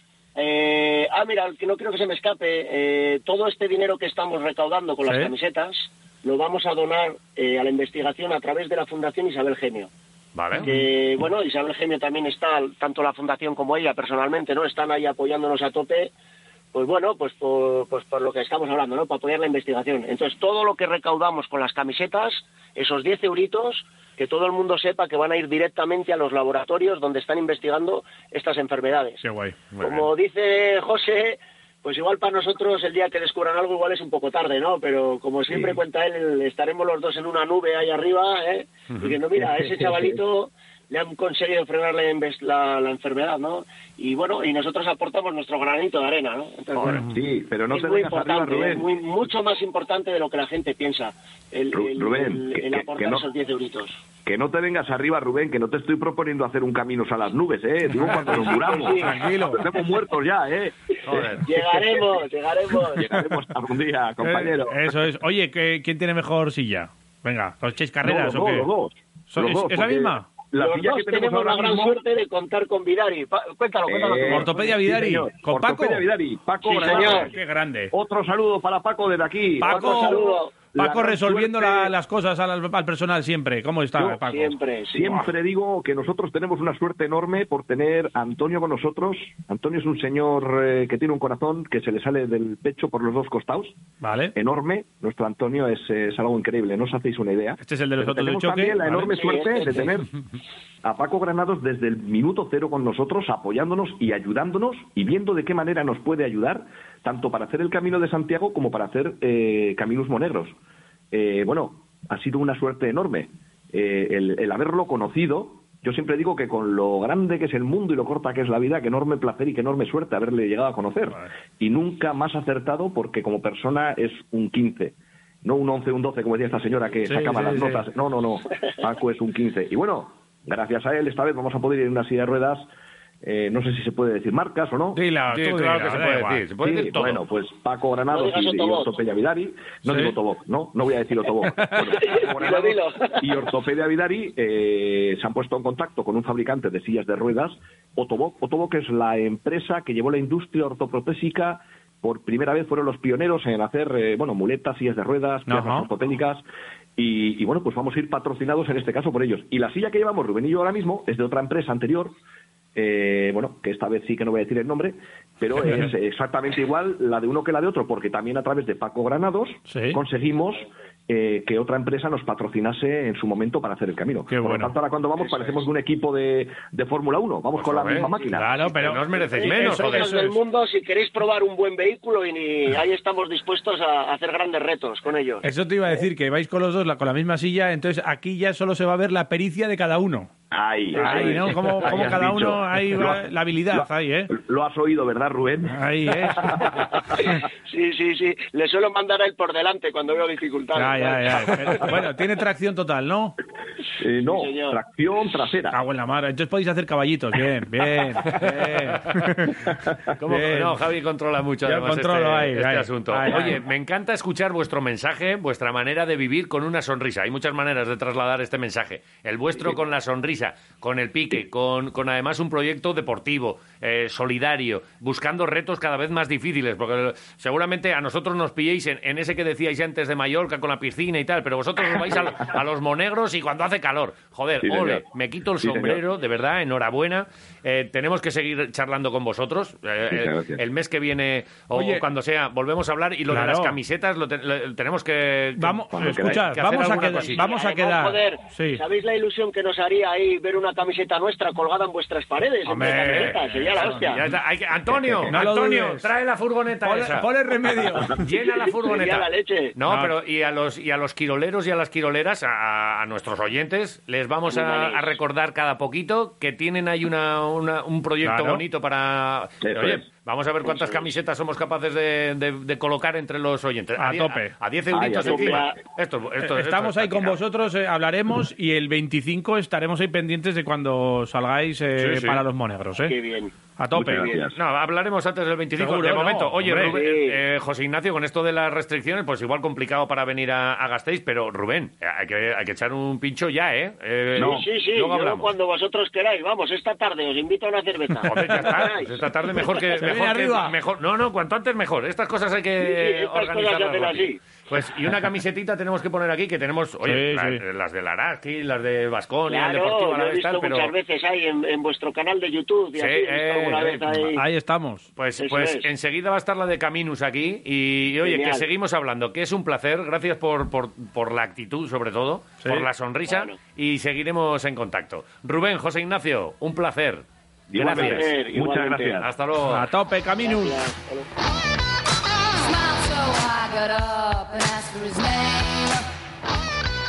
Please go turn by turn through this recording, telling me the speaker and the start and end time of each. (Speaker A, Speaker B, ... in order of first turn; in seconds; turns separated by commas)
Speaker A: 0.3-9.9, Speaker B: 5.0-5.3, Speaker C: 10.3-10.7, Speaker B: 10.6-10.8, Speaker A: 10.6-16.1, Speaker A: 16.7-29.2, Speaker B: 29.2-29.6, Speaker C: 29.7-30.1, Speaker A: 29.8-47.1, Speaker D: 35.5-35.8, Speaker D: 39.4-40.1, Speaker C: 46.7-47.0, Speaker B: 46.9-47.1, Speaker D: 47.0-48.9, Speaker A: 47.7-54.0, Speaker D: 51.7-53.2, Speaker D: 54.2-61.4, Speaker B: 57.9-59.6, Speaker A: 58.3-59.2, Speaker C: 61.0-61.5, Speaker A: 61.4-63.1, Speaker D: 62.9-64.9, Speaker B: 64.2-68.7, Speaker D: 68.0-72.0, Speaker B: 69.3-70.2, Speaker A: 70.6-74.7, Speaker D: 73.9-77.3, Speaker B: 74.2-76.0, Speaker A: 76.6-77.3, Speaker B: 76.8-77.9, Speaker D: 77.9-81.9, Speaker B: 79.6-84.5, Speaker A: 79.8-80.5, Speaker A: 84.2-85.2, Speaker D: 84.9-93.7, Speaker B: 94.0-94.3, Speaker D: 94.3-100.1, Speaker B: 97.6-99.1, Speaker A: 99.1-100.0, Speaker D: 100.8-110.6, Speaker D: 111.1-132.7, Speaker B: 127.0-127.8, Speaker D: 133.2-135.0, Speaker B: 134.9-136.4, Speaker C: 135.3-137.2, Speaker D: 136.6-156.4, Speaker A: 138.1-138.9, Speaker B: 139.8-140.1, Speaker B: 141.4-141.9, Speaker A: 141.8-143.4, Speaker B: 155.5-155.9, Speaker D: 157.0-162.2, Speaker D: 162.8-178.5, Speaker B: 169.7-170.0, Speaker B: 174.3-174.7, Speaker C: 177.5-178.1, Speaker B: 178.3-180.3, Speaker C: 178.6-180.3, Speaker A: 179.2-185.5, Speaker B: 185.4-190.3, Speaker D: 190.5-196.6, Speaker A: 190.9-192.1, Speaker B: 190.9-194.3, Speaker B: 195.6-196.7, Speaker A: 196.6-201.8, Speaker B: 200.7-203.4, Speaker D: 204.0-205.8, Speaker A: 204.2-204.8, Speaker B: 205.7-209.5, Speaker C: 208.2-209.6, Speaker C: 210.2-247.4, Speaker B: 210.2-210.8, Speaker B: 211.6-213.6, Speaker D: 234.6-235.1, Speaker D: 235.6-236.0, Speaker D: 240.1-240.6, Speaker B: 241.7-242.0, Speaker B: 243.3-243.8, Speaker B: 245.6-248.8, Speaker D: 245.9-246.4, Speaker A: 246.9-254.2, Speaker B: 252.7-254.3, Speaker C: 252.8-257.3, Speaker D: 254.9-255.2, Speaker B: 255.3-256.1, Speaker B: 256.8-258.2, Speaker C: 258.1-277.4, Speaker A: 258.3-259.8, Speaker B: 259.8-260.1, Speaker A: 264.5-265.1, Speaker B: 268.2-268.6, Speaker D: 269.6-270.0, Speaker A: 270.6-271.0, Speaker B: 274.0-274.5, Speaker D: 274.9-275.7, Speaker A: 275.2-275.8, Speaker B: 276.4-283.1, Speaker C: 282.0-282.4, Speaker A: 283.0-283.5, Speaker B: 283.8-284.3, Speaker D: 283.9-284.5, Speaker A: 284.1-284.4, Speaker C: 284.5-295.5, Speaker B: 285.8-287.0, Speaker A: 286.9-287.4, Speaker D: 294.3-294.6, Speaker A: 294.4-299.8, Speaker B: 298.2-298.8, Speaker C: 298.2-310.9, Speaker B: 299.9-300.8, Speaker A: 302.8-304.4, Speaker B: 307.0-307.6, Speaker A: 309.5-314.4, Speaker C: 312.9-314.3, Speaker B: 314.3-315.1, Speaker C: 315.1-328.3, Speaker A: 315.4-315.9, Speaker A: 318.2-318.7, Speaker A: 323.3-323.6, Speaker D: 327.7-329.3, Speaker A: 327.8-329.2, Speaker C: 329.2-329.9, Speaker B: 329.6-330.8, Speaker A: 330.4-331.3, Speaker E: 332.5-336.1